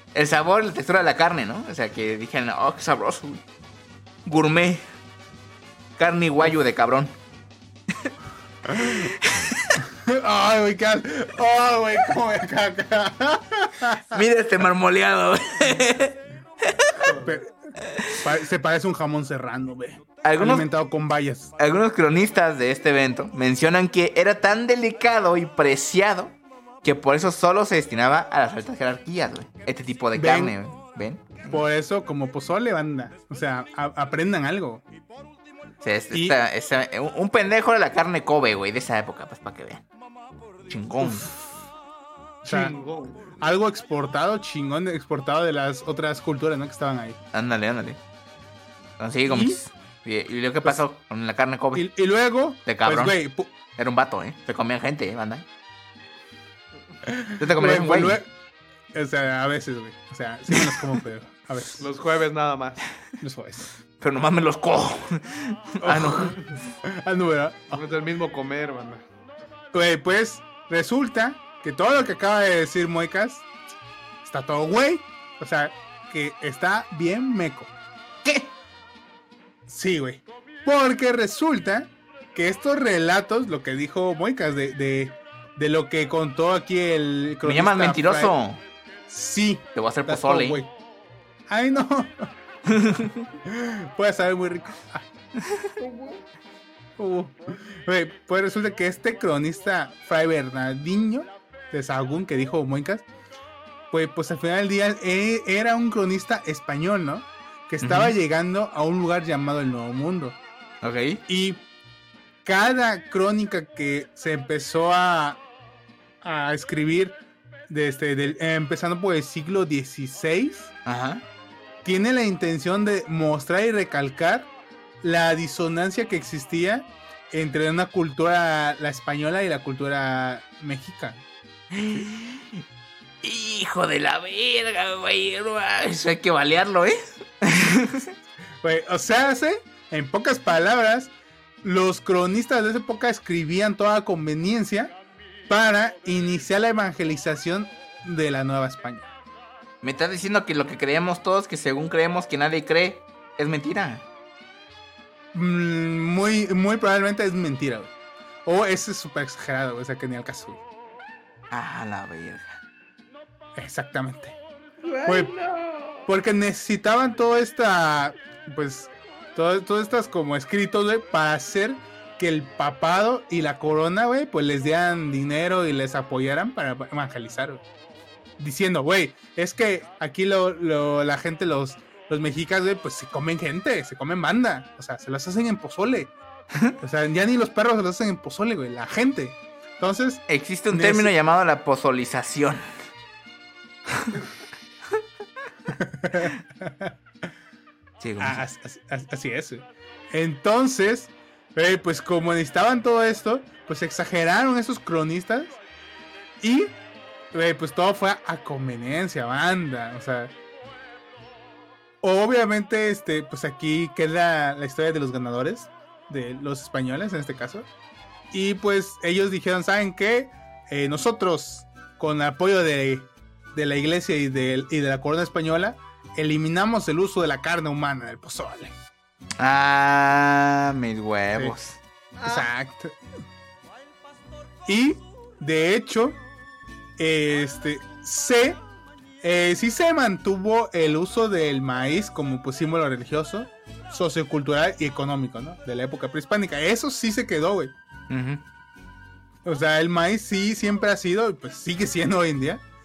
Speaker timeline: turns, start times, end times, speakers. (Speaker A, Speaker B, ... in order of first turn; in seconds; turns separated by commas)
Speaker A: 0.1-3.4, Speaker A: 4.2-4.8, Speaker A: 6.0-7.1, Speaker B: 8.7-9.1, Speaker A: 8.8-9.8, Speaker B: 9.9-14.2, Speaker A: 14.1-17.1, Speaker B: 17.1-17.7, Speaker A: 17.9-18.2, Speaker B: 18.2-21.5, Speaker A: 20.2-20.7, Speaker A: 21.6-31.6, Speaker B: 30.1-30.5, Speaker B: 31.5-34.8, Speaker A: 35.8-39.8, Speaker B: 36.1-36.4, Speaker A: 40.7-41.3, Speaker B: 41.0-41.3, Speaker B: 42.4-42.7, Speaker C: 42.4-43.4, Speaker B: 43.4-47.2, Speaker A: 47.3-48.0, Speaker A: 49.0-51.9, Speaker B: 49.3-49.6, Speaker B: 51.7-53.5, Speaker A: 52.6-53.1, Speaker A: 53.8-55.4, Speaker B: 57.1-58.3, Speaker A: 57.4-58.2, Speaker B: 58.9-61.9, Speaker C: 61.8-62.8, Speaker B: 63.2-63.7, Speaker A: 64.0-66.4, Speaker B: 65.8-67.8, Speaker C: 67.7-69.0, Speaker B: 69.7-73.5, Speaker B: 74.2-77.7, Speaker A: 78.2-78.5, Speaker B: 79.7-88.3, Speaker A: 87.4-88.6, Speaker B: 89.1-90.7, Speaker A: 89.7-90.6, Speaker B: 91.5-92.3, Speaker A: 92.7-93.2, Speaker B: 93.5-95.1, Speaker C: 95.8-96.2, Speaker B: 97.0-103.0, Speaker B: 103.9-110.4, Speaker A: 107.8-108.1, Speaker A: 110.8-111.2, Speaker B: 111.3-111.6, Speaker B: 112.4-115.4, Speaker B: 116.2-117.2, Speaker B: 117.7-120.7, Speaker A: 120.8-121.2, Speaker B: 121.8-124.5, Speaker B: 125.0-131.2, Speaker A: 131.7-132.4, Speaker A: 133.2-138.1, Speaker B: 138.6-141.1, Speaker B: 141.6-144.9, Speaker B: 145.5-149.1, Speaker A: 149.8-154.0, Speaker B: 155.3-157.9, Speaker B: 158.4-160.6, Speaker A: 161.5-162.6, Speaker B: 163.6-164.4, Speaker C: 164.9-165.8, Speaker B: 165.0-165.3, Speaker B: 166.1-177.6, Speaker B: 178.4-186.1, Speaker B: 186.8-191.1, Speaker A: 190.3-192.6, Speaker B: 195.7-196.9, Speaker A: 198.0-198.4, Speaker B: 198.2-205.6, Speaker B: 206.4-206.7, Speaker B: 207.3-210.3, Speaker B: 212.0-217.7, Speaker B: 218.3-228.7, Speaker A: 229.4-231.8, Speaker C: 232.2-232.5, Speaker B: 232.2-233.0, Speaker B: 234.7-236.2, Speaker B: 237.0-238.6, Speaker B: 239.2-247.7, Speaker A: 248.1-248.4, Speaker B: 249.4-252.6